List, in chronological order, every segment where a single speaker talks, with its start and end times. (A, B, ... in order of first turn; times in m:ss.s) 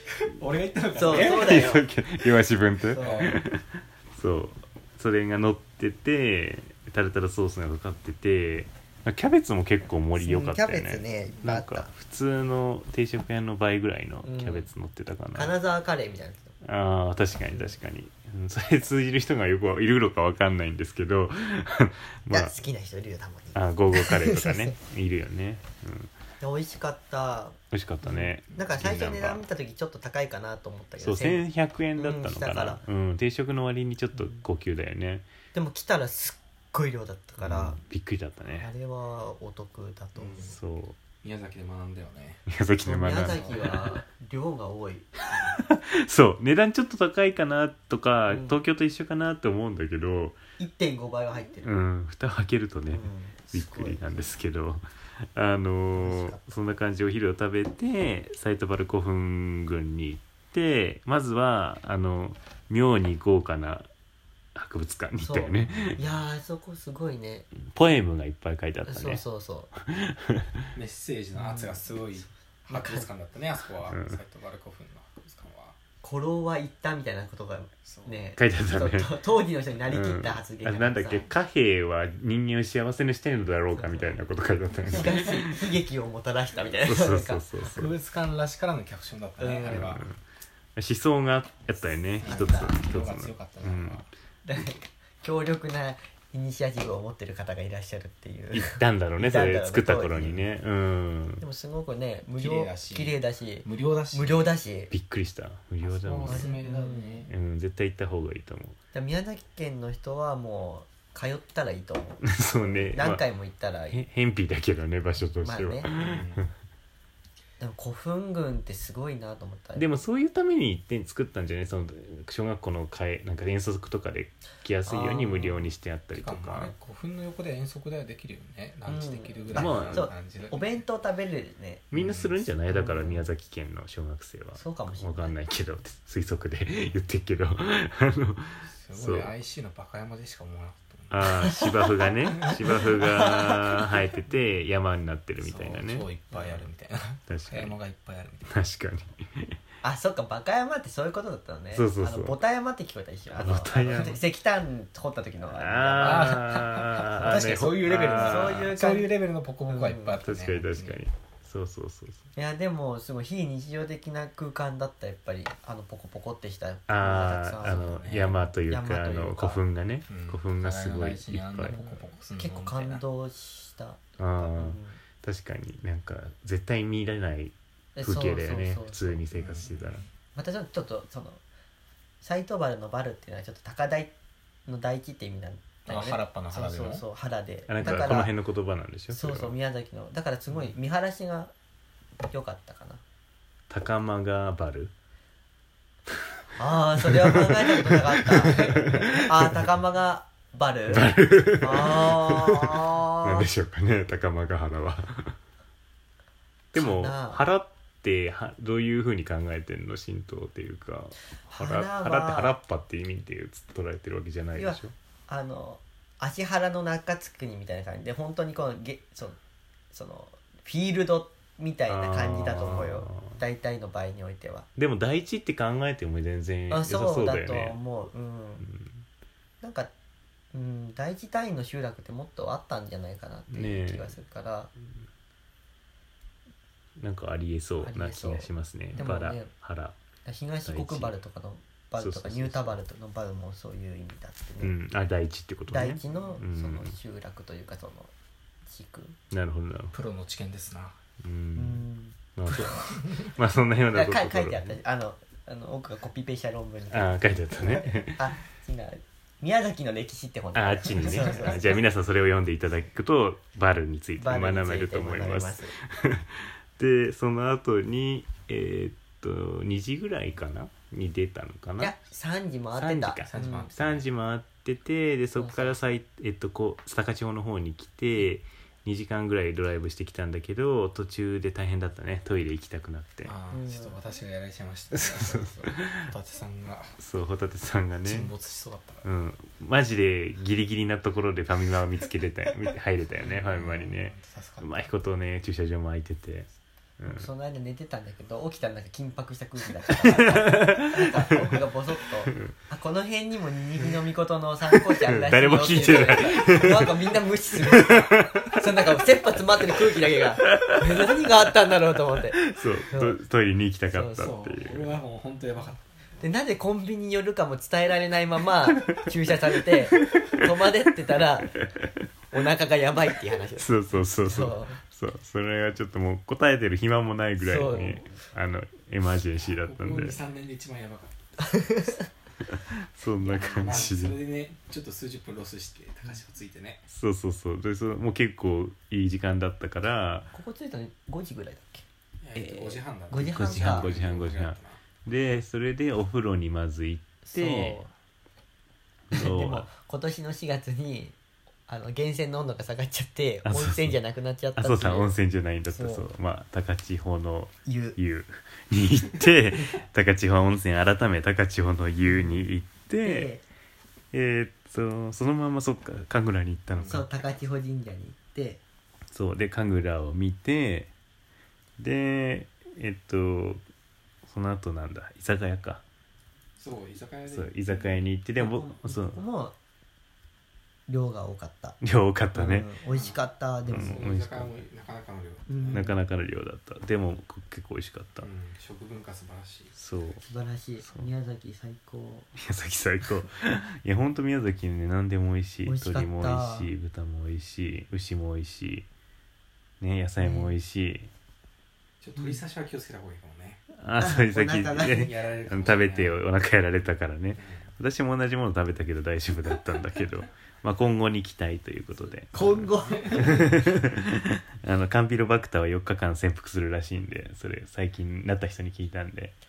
0:00.2-0:01.8 A
0:01.0-0:01.8 B
0:01.0-0:15.5 C
0:02.9-0:03.3 B
0:03.0-0:03.4 A
0:10.2-0:11.9 B
0:14.2-0:14.7 B
0:15.3-0:16.6 B
0:16.6-0:22.5 C
0:17.5-0:17.8 B
0:22.3-0:24.8 B
0:23.6-0:26.1 C
0:26.4-0:32.8 B
0:27.7-0:29.4 C
0:31.0-0:35.3 C
0:35.5-0:37.8 B
0:37.4-0:38.7 C
0:38.5-0:40.6 B
0:40.2-0:40.6 A
0:40.4-0:41.0 C
0:41.2-0:42.4 A
0:42.5-0:44.0 C
0:42.8-0:45.1 B
0:43.2-0:43.7 A
0:45.3-0:45.6 A
0:45.3-0:50.4 C
0:48.3-0:48.6 B
0:50.6-0:51.7 B
0:51.6-0:54.8 C
0:52.9-0:54.3 B
0:55.4-1:03.9 C
0:56.0-0:56.5 B
1:04.6-1:06.0 C
1:05.2-1:07.5 B
1:07.6-1:09.2 C
1:08.9-1:09.7 B
1:09.9-1:10.6 C
1:10.7-1:15.8 A
1:11.4-1:11.8 B
1:12.7-1:13.1 B
1:13.9-1:14.2 C
1:16.0-1:21.3 B
1:17.8-1:18.2 A
1:18.4-1:19.1 C
1:19.9-1:25.6 C
1:23.7-1:24.2 B
1:24.8-1:27.4 B
1:26.8-1:27.9 C
1:27.6-1:30.0 A
1:29.4-1:30.0 B
1:29.7-1:30.2 C
1:30.8-1:34.0 C
1:32.2-1:34.1 A
1:32.2-1:32.8 B
1:34.4-1:40.5 B
1:38.5-1:41.4 C
1:41.4-1:44.9 B
1:42.4-1:44.5 A
1:44.9-1:46.6 C
1:45.9-1:47.3 A
1:46.2-1:47.2 B
1:47.3-1:48.8 C
1:48.9-1:54.0 B
1:52.2-1:53.2 C
1:53.9-1:56.2 C
1:55.4-1:55.9 B
1:56.0-1:56.5 A
1:57.6-1:59.9 B
1:59.8-2:06.7 C
2:04.9-2:05.7 B
2:06.1-2:10.8 A
2:08.9-2:11.9 B
2:09.5-2:10.1 C
2:11.9-2:19.3 C
2:11.9-2:12.4 A
2:12.6-2:13.2 B
2:14.6-2:15.4 B
2:18.8-2:21.3 A
2:21.1-2:26.1 C
2:23.0-2:23.8 B
2:25.4-2:28.5 A
2:26.3-2:26.6 B
2:27.3-2:27.8 C
2:28.5-2:29.6 C
2:29.8-2:39.1 B
2:31.7-2:32.4 C
2:33.3-2:34.2 C
2:35.5-2:38.7 C
2:36.0-2:41.0 A
2:39.7-2:40.2 B
2:40.2-2:42.3 C
2:42.4-2:48.0 B
2:46.9-2:51.8 C
2:47.6-2:48.4 A
2:48.6-2:49.6 B
2:50.1-2:53.0 A
2:51.7-2:55.0 B
2:54.2-3:00.0 C
2:58.0-2:59.2 B
2:59.3-3:00.0 A
3:00.4-3:01.4 B
3:02.2-3:04.1 B
3:04.7-3:08.3 B
3:05.8-3:07.0 A
3:07.7-3:09.5 C
3:07.8-3:08.2 A
3:09.1-3:11.5 B
3:12.3-3:13.0 B
3:13.7-3:14.9 C
3:16.6-3:23.5 B
3:17.4-3:19.5 C
3:20.9-3:25.4 C
3:26.7-3:34.9 C
3:26.8-3:27.4 B
3:31.5-3:32.6 B
3:34.5-3:39.4 B
3:39.9-3:44.7 B
3:41.9-3:43.4 C
3:44.8-3:47.8 C
3:46.7-3:48.7 B
3:48.7-3:49.0 C
3:49.6-3:49.9 B
3:50.5-3:54.7 B
3:53.5-3:54.2 C
3:57.0-4:00.0 C
3:57.8-3:59.5 B
4:00.2-4:04.8 B
4:00.6-4:01.1 C
4:02.0-4:02.8 C
4:04.6-4:06.9 C
4:05.7-4:08.1 B
4:06.1-4:06.4 A
4:08.7-4:09.2 B
4:09.3-4:09.9 C
4:09.9-4:11.0 A
4:11.2-4:11.8 C
4:11.6-4:12.9 B
4:12.4-4:14.8 C
4:12.7-4:13.2 A
4:13.9-4:21.8 B
4:16.9-4:18.2 C
4:20.5-4:31.9 C
4:21.1-4:21.5 A
4:24.2-4:25.8 B
4:31.8-4:33.7 B
4:32.8-4:43.3 C
4:33.2-4:34.0 A
4:35.4-4:35.8 B
4:43.2-4:47.0 A
4:43.5-4:44.0 B
4:45.3-4:46.1 C
4:47.0-4:48.3 C
4:48.0-4:49.1 A
4:49.0-4:56.5 C
4:53.2-4:54.9 A
4:57.0-4:57.3 C
4:57.1-5:13.2 B
5:00.1-5:01.0 C
5:04.7-5:08.5 C
5:10.6-5:11.2 C
5:12.4-5:15.0 C
5:13.9-5:14.3 B
5:14.2-5:15.8 A
5:16.2-5:21.6 B
5:20.0-5:20.4 C
5:21.6-5:21.9 C
5:22.3-5:23.7 B
5:23.6-5:30.2 C
5:24.2-5:24.8 B
5:27.4-5:28.1 B
5:29.5-5:31.5 A
5:31.5-5:32.0 B
5:32.5-5:34.2 C
5:33.2-5:33.9 B
5:33.4-5:36.8 A
5:36.9-5:40.3 C
5:40.3-5:41.8 B
5:42.2-5:44.8 A
5:43.1-5:43.9 B
5:43.2-5:47.8 C
5:47.3-5:47.9 B
5:49.1-5:49.7 C
5:49.1-5:51.2 B
5:51.7-5:55.1 B
5:53.4-5:54.0 C
5:54.6-6:03.3 C
5:55.7-5:56.1 B
5:57.7-5:58.0 B
6:03.0-6:03.4 B
6:04.1-6:07.1 C
6:06.7-6:07.1 A
6:06.9-6:08.6 B
6:09.1-6:10.9 C
6:11.8-6:13.6 C
6:14.3-6:15.8 C
6:16.6-6:18.0 A
6:17.3-6:19.2 C
6:18.4-6:19.6 B
6:20.9-6:21.8 B
6:21.8-6:22.7 C
6:22.3-6:24.1 B
6:22.9-6:25.9 A
6:23.7-6:24.6 C
6:25.5-6:26.0 B
6:25.7-6:28.3 C
6:28.2-6:29.7 A
6:29.8-6:30.2 C
6:30.2-6:32.3 B
6:30.8-6:31.1 C
6:32.4-6:38.9 C
6:35.7-6:36.7 B
6:39.8-6:41.1 C
6:40.2-6:40.5 B
6:42.0-6:43.6 A
6:43.8-6:59.4 C
6:44.0-6:45.1 B
6:44.7-6:46.2 A
6:47.4-6:47.6 A
6:52.1-6:53.4 A
6:52.3-6:53.6 B